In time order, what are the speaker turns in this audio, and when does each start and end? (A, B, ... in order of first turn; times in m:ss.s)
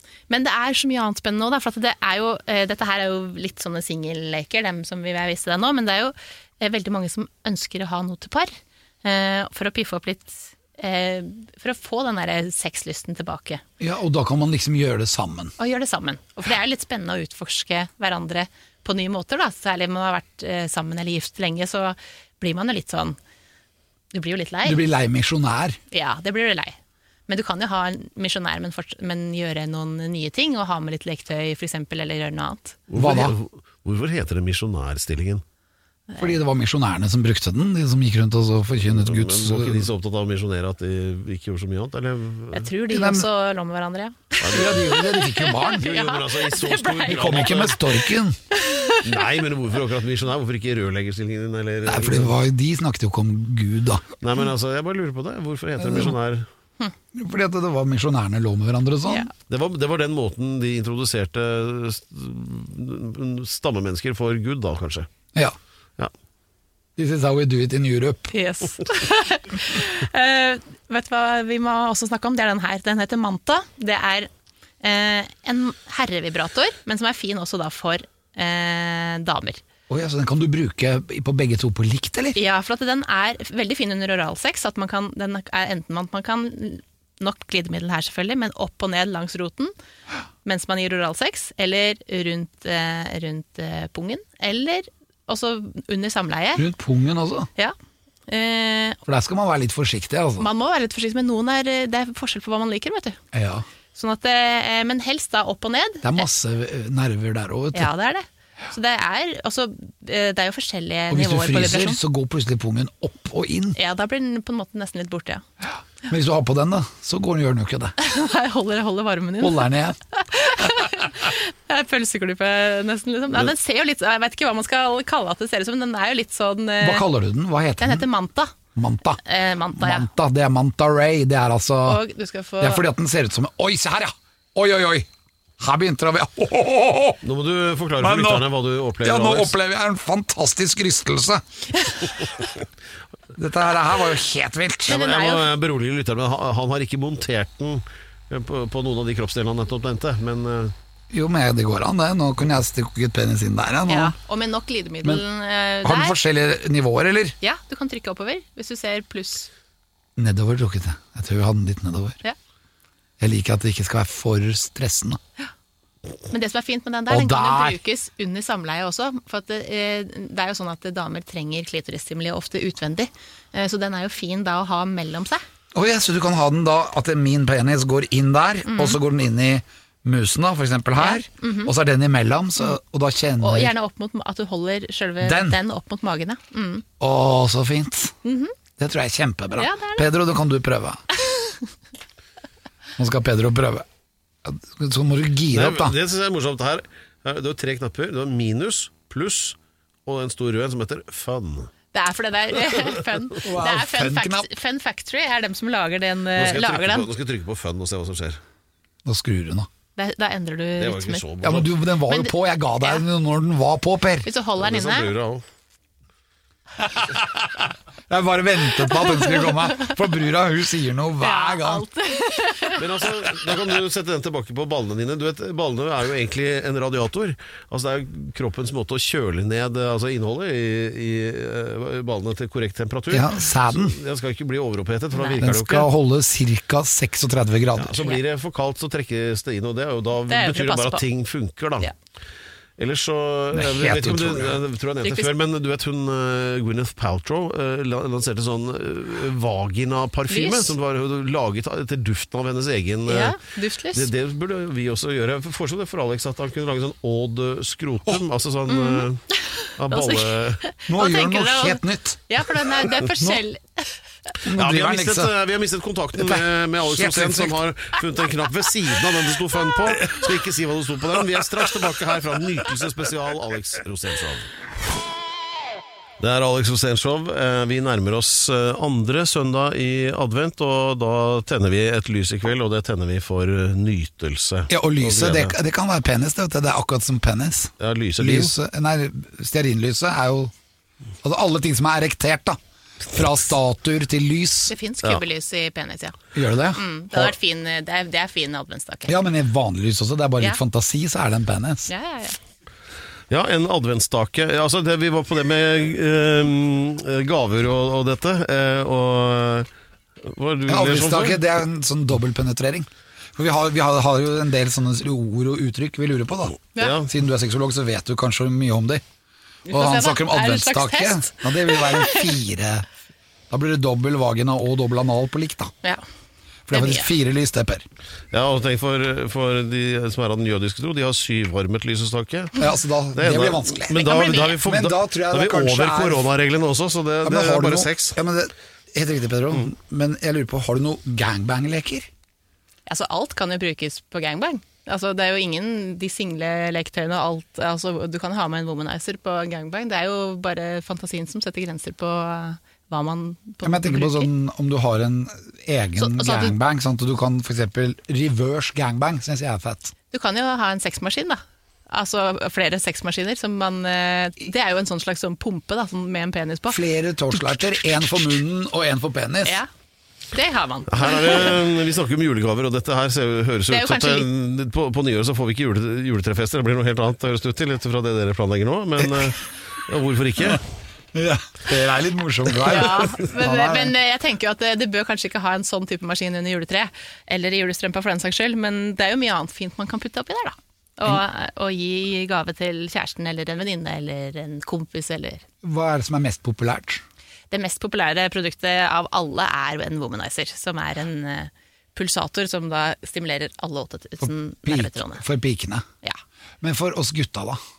0:00.3-0:13.6 A
0:13.8-0:15.5 B
0:15.6-0:23.2 A
0:24.1-0:24.8 A
0:24.6-0:25.8 B
0:25.9-0:26.8 A
0:27.3-0:32.8 A
0:32.9-0:35.4 C
0:32.9-0:33.4 B
0:36.1-0:36.4 A
0:36.2-0:39.9 B
0:38.9-0:42.7 C
0:42.5-0:47.6 A
0:42.9-0:43.3 B
0:44.4-0:44.9 C
0:44.5-0:45.9 B
0:45.8-0:47.9 C
0:47.0-0:48.4 B
0:48.5-0:49.2 A
0:49.0-0:52.3 C
0:51.8-0:54.0 B
0:54.2-0:56.5 C
0:55.8-0:56.2 B
0:57.1-0:59.3 B
0:59.5-1:05.1 C
1:07.0-1:08.3 B
1:08.3-1:14.3 A
1:14.8-1:19.6 A
1:19.9-1:22.4 B
1:22.3-1:29.7 A
1:30.4-1:36.6 A
1:36.6-1:37.5 B
1:38.3-1:39.0 A
1:39.0-1:40.5 B
1:40.4-1:43.2 A
1:43.3-1:43.6 B
1:43.9-1:46.2 A
1:46.0-1:47.9 B
1:47.7-1:52.0 A
1:51.1-1:53.8 B
1:53.8-1:55.4 A
1:56.1-1:57.9 B
1:58.0-2:07.0 A
1:59.4-2:00.0 B
2:06.8-2:08.1 B
2:07.8-2:08.5 A
2:08.7-2:09.2 B
2:09.2-2:10.1 A
2:09.8-2:12.0 B
2:11.8-2:12.8 A
2:12.6-2:15.1 B
2:15.6-2:17.2 B
2:17.2-2:19.5 C
2:18.0-2:18.5 B
2:19.0-2:21.4 B
2:23.3-2:25.0 B
2:24.9-2:30.7 C
2:24.9-2:25.5 A
2:31.1-2:34.2 B
2:33.9-2:36.2 A
2:35.8-2:37.4 B
2:37.4-2:39.5 A
2:40.2-2:42.2 B
2:43.2-2:45.2 B
2:46.3-2:55.4 A
2:47.1-2:47.8 B
2:55.7-3:03.7 B
2:58.6-2:59.0 A
3:01.0-3:01.7 A
3:03.4-3:06.8 A
3:05.2-3:05.6 B
3:07.0-3:08.2 B
3:08.2-3:08.5 A
3:08.8-3:11.0 B
3:09.6-3:10.1 A
3:11.2-3:11.6 A
3:13.0-3:13.8 B
3:14.4-3:15.9 B
3:15.5-3:21.7 C
3:21.9-3:27.1 A
3:23.4-3:24.5 B
3:26.4-3:28.4 C
3:29.0-3:29.7 B
3:30.0-3:31.3 A
3:30.8-3:31.7 C
3:31.4-3:34.3 B
3:32.0-3:33.0 A
3:34.2-3:35.1 A
3:34.6-3:35.4 C
3:36.8-3:41.8 B
3:39.1-3:39.9 A
3:41.2-3:42.8 A
3:42.8-3:55.9 C
3:53.1-3:54.0 B
3:55.1-3:55.4 A
3:55.4-3:58.0 B
3:57.8-4:01.9 C
4:00.3-4:01.0 A
4:02.8-4:13.4 C
4:03.5-4:04.6 B
4:05.0-4:05.3 A
4:10.3-4:10.7 A
4:13.1-4:14.1 A
4:13.9-4:19.2 C
4:18.7-4:24.0 A
4:19.8-4:20.6 C
4:20.9-4:22.2 B
4:23.0-4:23.4 B
4:24.4-4:25.3 B
4:24.5-4:34.5 C
4:26.2-4:27.6 B
4:36.2-4:45.5 C
4:44.7-4:50.5 B
4:47.8-4:48.5 C
4:51.2-4:52.6 B
4:53.1-4:54.7 B
4:54.7-4:56.2 A
4:56.3-4:57.3 B
4:56.7-4:59.2 A
4:59.1-5:01.9 B
5:01.9-5:02.4 A
5:03.3-5:09.7 C
5:10.2-5:11.4 C
5:10.7-5:19.0 B
5:16.8-5:17.1 C
5:19.7-5:22.4 A
5:19.7-5:22.8 B
5:23.5-5:25.7 B
5:26.7-5:27.8 B
5:26.7-5:27.1 A
5:28.3-5:32.5 C
5:32.6-5:36.3 B
5:33.1-5:38.2 C
5:33.9-5:34.6 A
5:37.2-5:42.1 B
5:42.9-5:54.3 A
5:53.6-5:59.9 B
5:56.0-5:56.6 A
6:00.1-6:06.8 A
6:06.7-6:09.6 B
6:10.3-6:11.6 A
6:10.9-6:20.6 C
6:13.7-6:14.3 A
6:19.0-6:19.3 B
6:21.1-6:23.9 B
6:22.6-6:35.4 A
6:35.6-6:37.0 B
6:37.5-6:45.2 A
6:44.2-6:45.8 B
6:46.6-6:47.6 B